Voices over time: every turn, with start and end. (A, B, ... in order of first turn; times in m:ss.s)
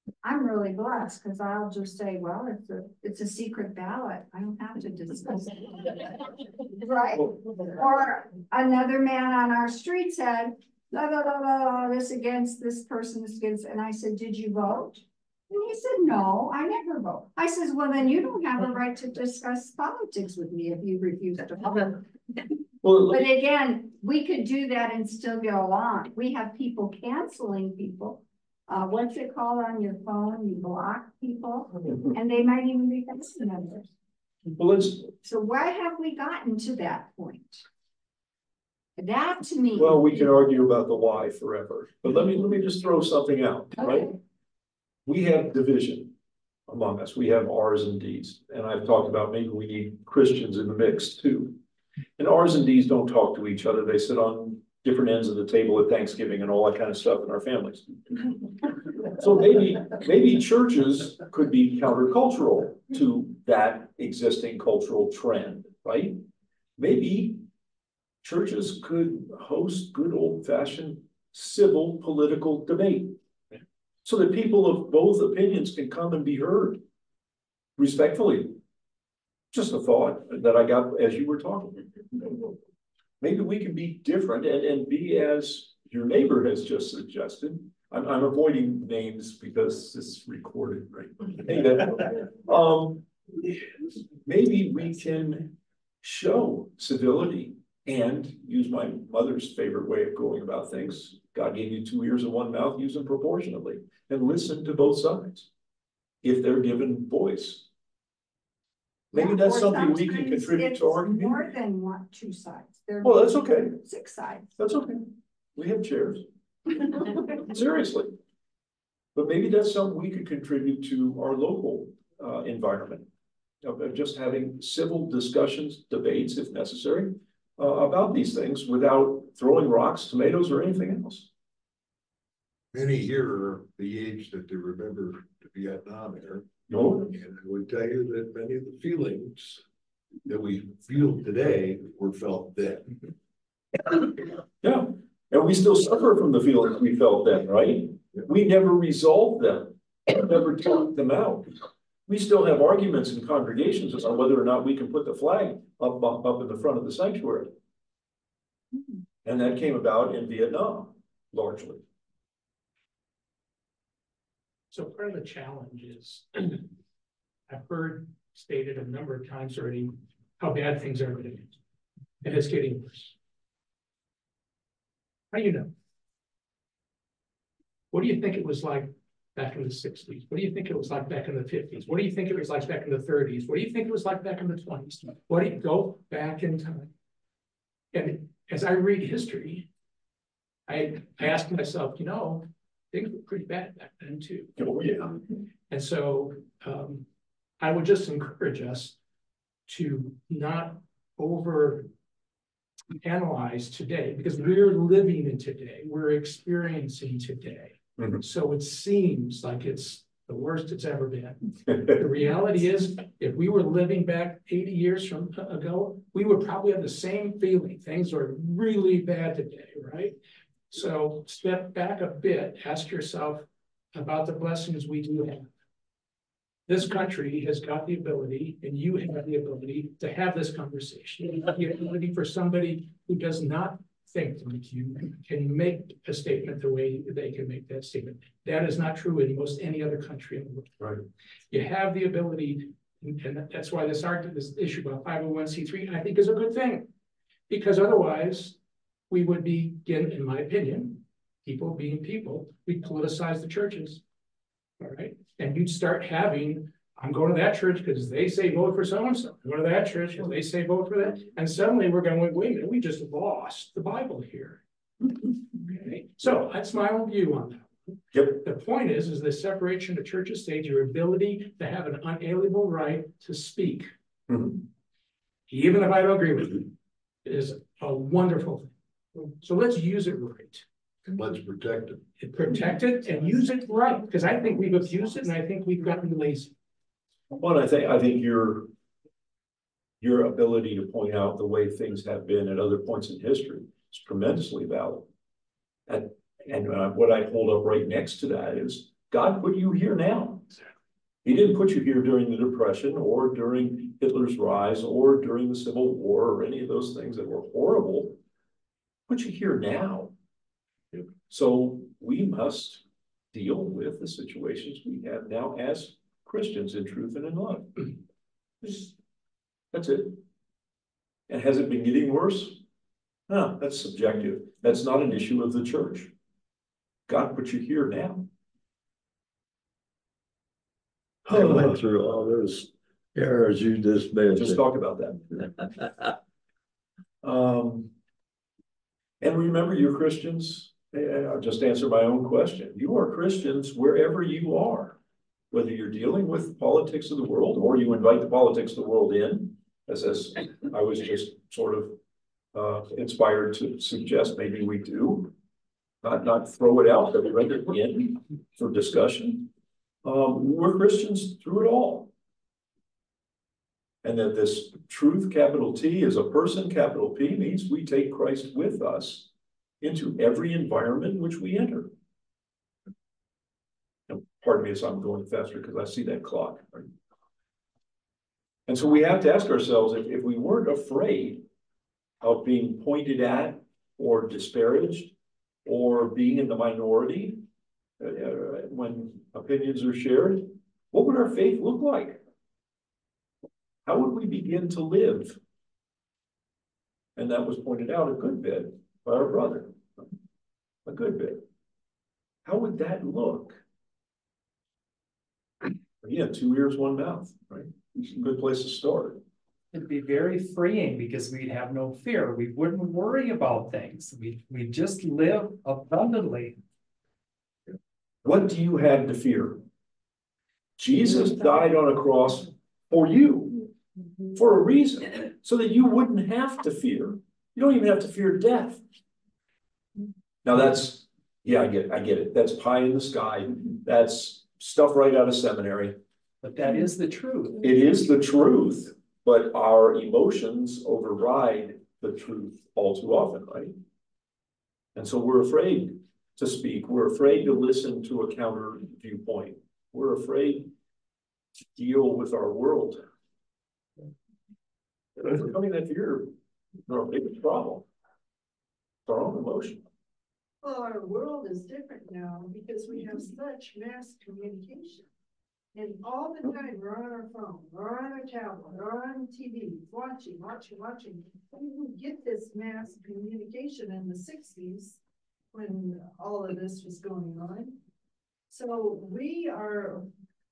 0:00.2-0:22.0 A
0:22.8-0:23.2 B
0:23.1-0:33.9 A
0:34.6-0:35.1 B
0:35.2-0:37.6 A
0:39.0-0:40.5 A
0:39.8-0:44.1 B
0:45.1-0:46.1 B
0:46.7-0:51.6 B
0:52.2-1:06.2 B
1:06.8-1:07.4 B
1:08.2-1:13.2 B
1:14.0-1:16.8 B
1:17.8-1:18.6 B
1:19.5-1:22.5 B
1:23.2-1:33.0 B
1:34.2-1:45.5 B
1:46.2-1:47.7 B
1:49.1-1:51.5 B
1:49.1-1:54.5 A
1:53.0-1:53.8 B
1:54.6-1:56.2 B
1:57.3-1:58.1 B
1:59.2-2:03.1 B
2:03.6-2:11.3 B
2:12.7-2:19.6 C
2:16.7-2:17.1 B
2:20.3-2:23.0 C
2:24.6-2:31.5 B
2:32.1-2:37.5 B
2:39.2-2:41.8 B
2:44.7-2:46.7 D
2:47.5-2:51.6 D
2:52.2-2:53.1 D
2:55.3-2:55.7 D
2:57.9-3:06.9 D
3:07.9-3:09.7 D
3:10.7-3:14.5 D
3:14.6-3:15.2 B
3:15.7-3:17.1 D
3:17.6-3:19.0 D
3:19.7-3:21.9 D
3:23.0-3:40.2 D
3:28.0-3:28.2 B
3:40.7-3:45.5 D
3:46.7-4:00.8 D
4:01.5-4:06.9 D
4:07.5-4:08.6 D
4:09.1-4:14.0 D
4:14.8-4:24.6 D
4:25.7-4:33.9 D
4:28.1-4:28.4 B
4:34.3-4:34.6 B
4:35.5-4:36.7 D
4:37.2-4:38.7 D
4:39.4-4:40.6 D
4:41.1-4:42.1 C
4:42.2-4:46.5 D
4:47.3-4:48.7 B
4:50.0-4:55.1 B
4:55.9-5:00.5 B
5:01.2-5:08.2 B
5:09.1-5:10.1 B
5:10.9-5:17.9 B
5:18.6-5:18.9 B
5:19.7-5:20.2 B
5:21.3-5:22.6 B
5:23.3-5:26.1 B
5:27.1-5:28.3 B
5:31.3-5:31.8 B
5:31.3-5:34.6 E
5:34.4-5:35.5 B
5:37.2-5:37.9 B
5:39.2-5:45.0 B
5:45.5-5:52.0 B
5:52.5-5:55.3 B
5:56.0-5:59.5 B
6:00.0-6:02.1 B
6:04.0-6:09.3 B
6:09.8-6:11.9 B
6:14.1-6:16.9 B
6:18.7-6:21.4 B
6:22.2-6:25.1 B
6:25.6-6:27.4 B
6:28.0-6:32.2 B
6:33.8-6:35.4 B
6:37.2-6:40.0 B
6:40.8-6:41.4 B
6:42.4-6:43.6 B
6:46.0-6:49.2 B
6:49.7-6:56.6 F
6:58.2-6:59.6 B
7:00.8-7:03.7 B
7:04.3-7:08.8 B
7:10.4-7:16.0 B
7:16.4-7:17.6 F
7:17.6-7:23.7 B
7:25.0-7:30.7 B
7:31.7-7:33.0 B
7:35.2-7:36.3 B
7:36.9-7:37.9 B
7:39.1-7:39.9 B
7:40.6-7:45.1 G
7:45.8-7:55.0 G
7:55.5-7:57.8 G
7:58.5-8:00.1 G